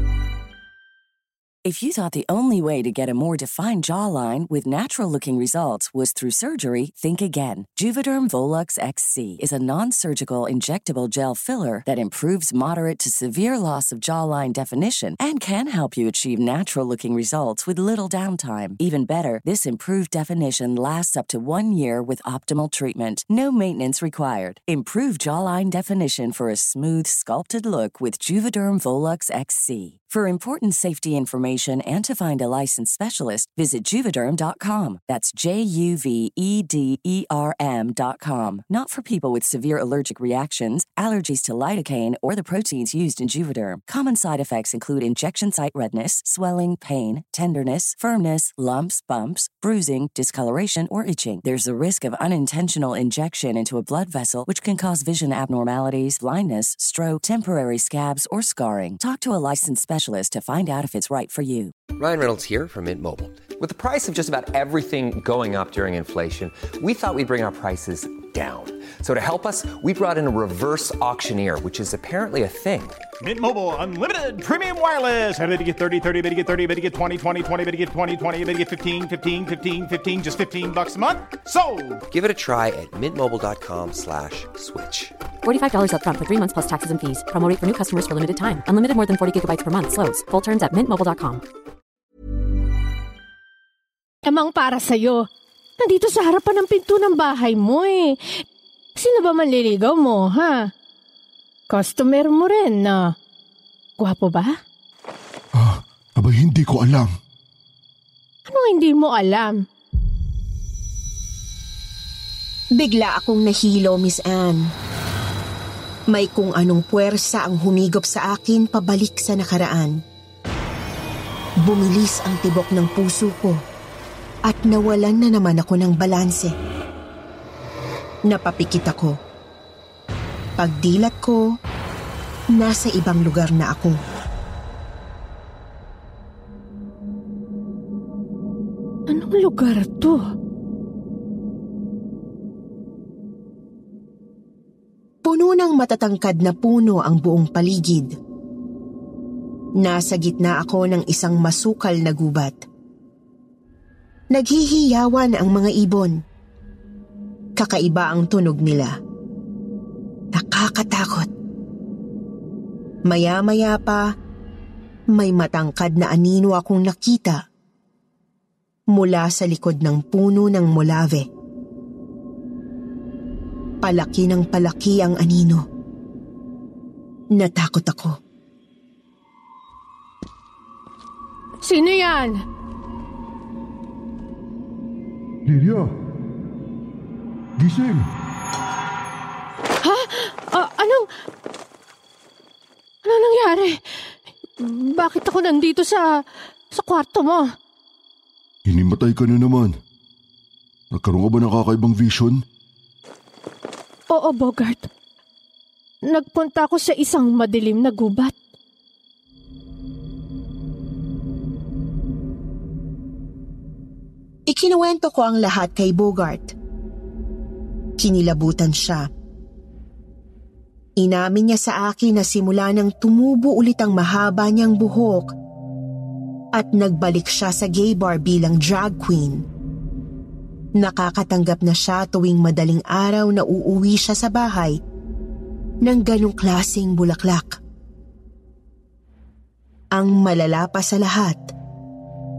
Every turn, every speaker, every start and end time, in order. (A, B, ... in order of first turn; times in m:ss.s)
0:01.6-1:01.7 A
1:02.0-1:13.0 B
1:13.2-1:22.0 C
1:22.1-1:25.1 B
1:25.4-1:31.4 D
1:34.2-1:35.3 E
1:35.8-1:38.4 E
1:39.0-1:40.7 E
1:41.7-1:43.1 E
1:44.0-1:44.6 E
1:45.5-1:47.1 F
1:48.5-1:49.6 E
1:52.8-1:54.7 G
1:56.1-1:59.9 G
2:01.6-2:03.6 G
2:04.4-2:06.5 G
2:08.3-2:09.2 G
2:10.6-2:11.4 G
2:12.5-2:14.0 G
2:19.1-2:20.2 E
2:25.2-2:28.1 G
2:29.8-2:32.6 G
2:34.3-2:36.2 G
2:37.6-2:38.9 G
2:40.3-2:41.3 G
2:43.1-2:44.0 G
2:45.1-2:47.4 G
2:48.9-2:51.3 G
2:53.8-2:55.6 G
2:57.3-2:58.1 G
3:01.6-3:02.4 E
3:05.4-3:05.9 F
3:07.6-3:08.1 F
3:09.8-3:11.1 E
3:13.0-3:13.8 E
3:14.6-3:16.1 E
3:16.7-3:17.5 E
3:18.6-3:19.7 F
3:20.9-3:22.4 F
3:24.1-3:24.9 E
3:26.1-3:28.4 E
3:34.5-3:36.5 G
3:38.0-3:39.1 G
3:41.0-3:45.3 G
3:46.5-3:49.4 G
3:50.8-3:54.8 G
3:55.8-3:57.6 G
3:59.9-4:01.4 G